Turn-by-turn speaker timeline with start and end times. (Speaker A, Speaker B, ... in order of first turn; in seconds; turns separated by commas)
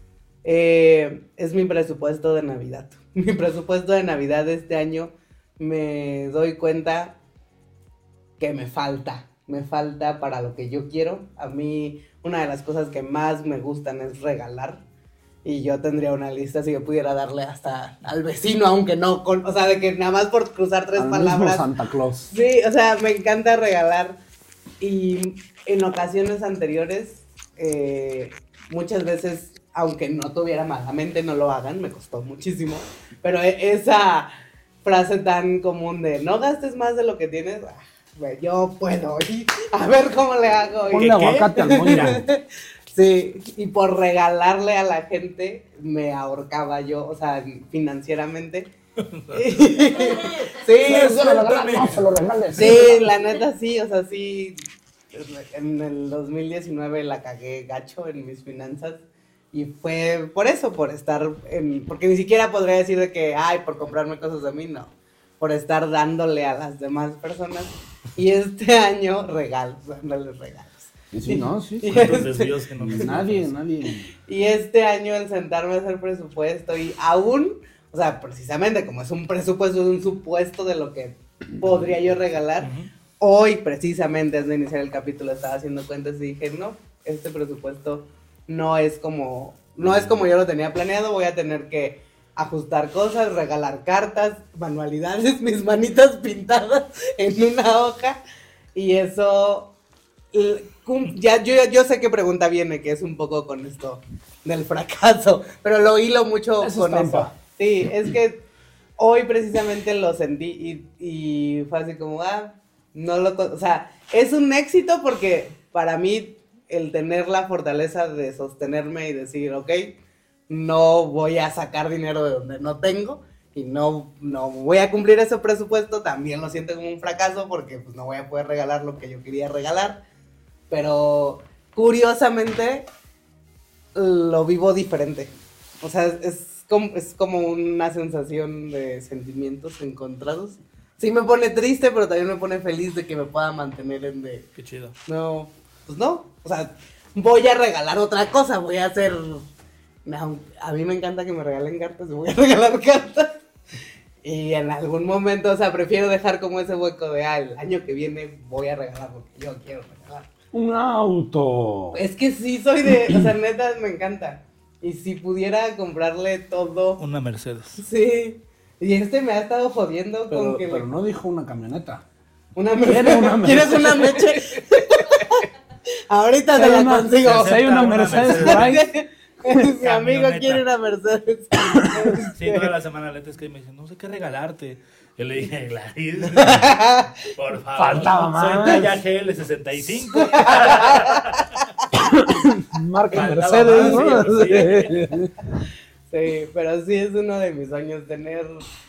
Speaker A: 0.4-7.2, Speaker A: 8.4-14.8, Speaker A: 15.4-21.7, Speaker B: 21.0-22.3, Speaker A: 22.3-24.2, Speaker A: 24.8-48.7, Speaker B: 40.9-42.3, Speaker C: 40.9-42.0, Speaker C: 49.1-49.4, Speaker A: 49.3-51.3, Speaker B: 50.7-53.1, Speaker C: 50.8-52.1, Speaker A: 52.6-73.1, Speaker B: 71.1-72.3, Speaker C: 71.9-73.5, Speaker B: 72.8-74.1, Speaker A: 74.3-98.2, Speaker C: 82.6-82.9, Speaker A: 98.8-99.7, Speaker A: 100.3-108.4, Speaker B: 106.6-107.3, Speaker A: 109.0-120.0, Speaker A: 120.5-130.0, Speaker A: 130.7-132.9, Speaker A: 133.9-144.5, Speaker C: 144.6-144.9, Speaker A: 145.1-149.5, Speaker A: 150.1-153.4, Speaker A: 154.2-160.3, Speaker B: 160.5-162.0, Speaker A: 161.9-167.0, Speaker C: 167.0-167.8, Speaker A: 167.8-170.9, Speaker B: 170.3-172.1, Speaker A: 172.6-175.5, Speaker B: 172.8-174.6, Speaker A: 176.1-182.7, Speaker B: 176.6-178.9, Speaker C: 177.2-178.8, Speaker C: 179.8-180.7, Speaker C: 182.3-191.5, Speaker A: 186.3-187.2, Speaker B: 187.8-189.0, Speaker A: 190.1-191.4, Speaker B: 191.9-195.3, Speaker C: 193.1-195.0, Speaker A: 193.7-194.7, Speaker A: 196.1-198.6